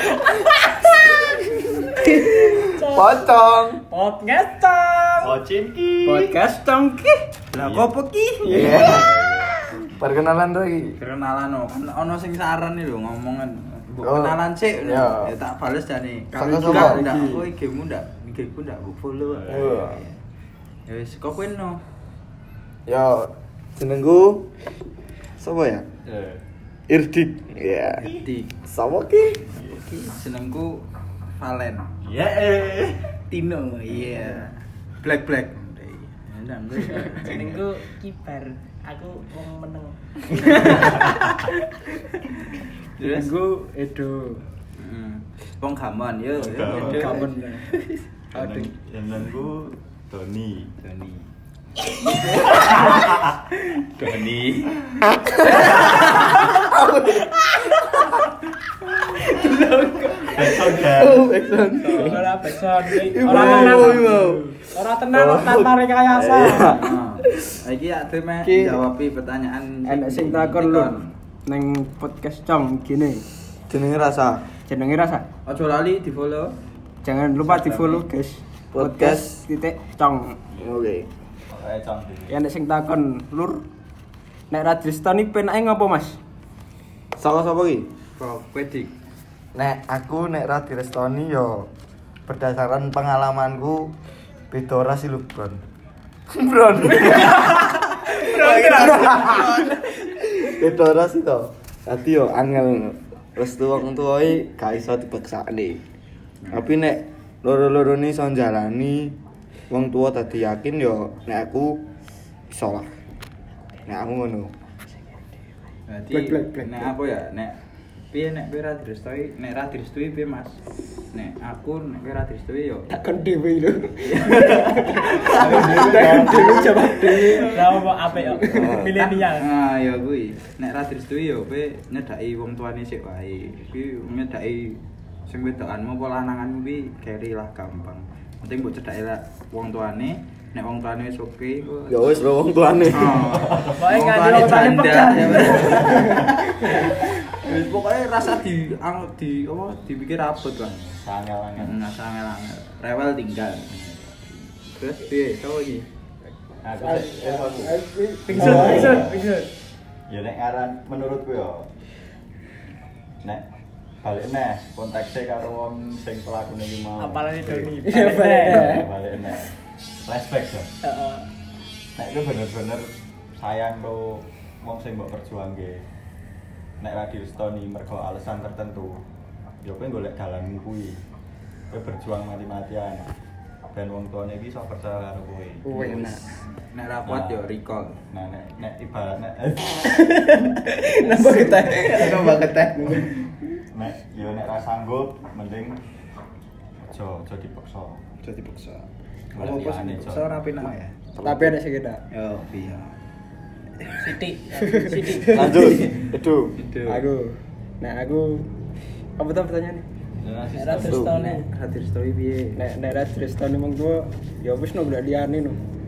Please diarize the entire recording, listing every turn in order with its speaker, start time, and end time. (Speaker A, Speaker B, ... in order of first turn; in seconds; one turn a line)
Speaker A: 2.0-3.8
Speaker B: 2.2-3.2
Speaker B: 3.9-5.3
Speaker C: 5.2-6.4
Speaker D: 6.0-7.2
Speaker C: 7.5-7.9
Speaker E: 7.5-8.9
Speaker A: 8.4-9.1
Speaker C: 8.5-9.6
Speaker D: 8.6-8.8
Speaker A: 9.9-10.9
Speaker E: 10.9-20.1
Speaker A: 14.0-15.3
Speaker A: 16.3-17.1
Speaker D: 16.6-17.4
Speaker C: 19.3-19.7
Speaker A: 19.5-20.0
Speaker E: 20.9-21.8
Speaker A: 22.9-24.5
Speaker A: 25.4-25.9
Speaker C: 26.1-26.4
Speaker A: 26.9-28.1
Speaker E: 28.1-28.5
Speaker A: 28.6-29.4
Speaker E: 29.6-30.9
Speaker E: 31.4-31.9
Speaker C: 32.0-33.1
Speaker E: 33.3-37.6
Speaker B: 36.9-40.9
Speaker C: 40.5-41.2
Speaker E: 43.0-43.3
Speaker D: 43.0-44.4
Speaker E: 44.8-47.3
Speaker C: 46.4-47.2
Speaker D: 46.6-47.9
Speaker C: 48.3-50.7
Speaker E: 48.3-48.7
Speaker E: 50.8-51.3
Speaker E: 51.8-56.5
Speaker C: 52.5-53.3
Speaker A: 55.0-57.9
Speaker D: 59.4-60.3
Speaker C: 60.2-61.3
Speaker A: 60.7-64.6
Speaker E: 61.9-62.2
Speaker B: 62.0-66.8
Speaker A: 65.1-66.9
Speaker E: 66.7-71.1
Speaker D: 68.4-68.8
Speaker D: 69.8-70.9
Speaker D: 71.5-73.2
Speaker A: 73.7-74.4
Speaker D: 74.7-75.3
Speaker E: 75.5-76.5
Speaker D: 77.0-80.4
Speaker E: 77.4-78.0
Speaker A: 78.7-79.4
Speaker A: 80.6-81.1
Speaker C: 81.5-82.3
Speaker D: 82.3-83.7
Speaker D: 84.5-86.2
Speaker A: 87.2-87.9
Speaker E: 88.2-88.9
Speaker A: 89.5-91.7
Speaker A: 92.3-93.9
Speaker A: 94.5-95.6
Speaker A: 96.3-97.6
Speaker E: 97.0-100.0
Speaker B: 97.1-99.6
Speaker A: 98.4-105.8
Speaker A: 106.5-109.2
Speaker A: 109.7-111.8
Speaker A: 112.5-112.9
Speaker A: 113.8-114.5
Speaker E: 115.9-117.6
Speaker D: 116.1-116.9
Speaker E: 118.1-120.6
Speaker E: 121.1-122.9
Speaker D: 122.9-127.6
Speaker E: 124.0-127.2
Speaker C: 125.3-126.5
Speaker A: 126.2-126.7
Speaker B: 127.2-129.5
Speaker A: 128.5-128.9
Speaker E: 128.9-142.2
Speaker A: 141.9-143.3
Speaker E: 142.9-150.8
Speaker C: 143.3-143.8
Speaker B: 143.8-146.9
Speaker C: 150.7-151.8
Speaker E: 151.6-153.7
Speaker C: 153.7-154.1
Speaker E: 154.3-155.9
Speaker C: 156.6-157.8
Speaker D: 156.8-159.1
Speaker C: 158.3-159.3
Speaker B: 158.3-159.5
Speaker E: 158.6-158.9
Speaker C: 160.1-161.7
Speaker C: 164.0-167.9
Speaker B: 167.0-168.8
Speaker D: 167.8-168.9
Speaker C: 168.5-169.5
Speaker C: 170.0-170.8
Speaker B: 170.8-171.3
Speaker C: 171.9-175.8
Speaker C: 176.8-179.0
Speaker C: 179.6-181.0
Speaker C: 181.7-183.1
Speaker C: 183.7-186.1
Speaker D: 185.6-186.2
Speaker E: 186.5-188.0
Speaker C: 187.1-187.4
Speaker C: 188.1-190.1
Speaker D: 189.8-193.2
Speaker E: 190.9-193.1
Speaker C: 193.7-195.8
Speaker C: 196.9-198.0
Speaker E: 198.2-201.0
Speaker C: 199.3-200.3
Speaker A: 201.2-201.5
Speaker D: 201.2-202.0
Speaker E: 202.1-202.9
Speaker E: 203.8-204.2
Speaker B: 204.0-205.5
Speaker D: 204.6-205.7
Speaker A: 205.2-206.5
Speaker E: 205.6-207.0
Speaker D: 206.8-208.5
Speaker D: 209.2-209.8
Speaker E: 210.2-212.6
Speaker B: 210.5-211.4
Speaker A: 210.7-211.1
Speaker D: 212.5-215.6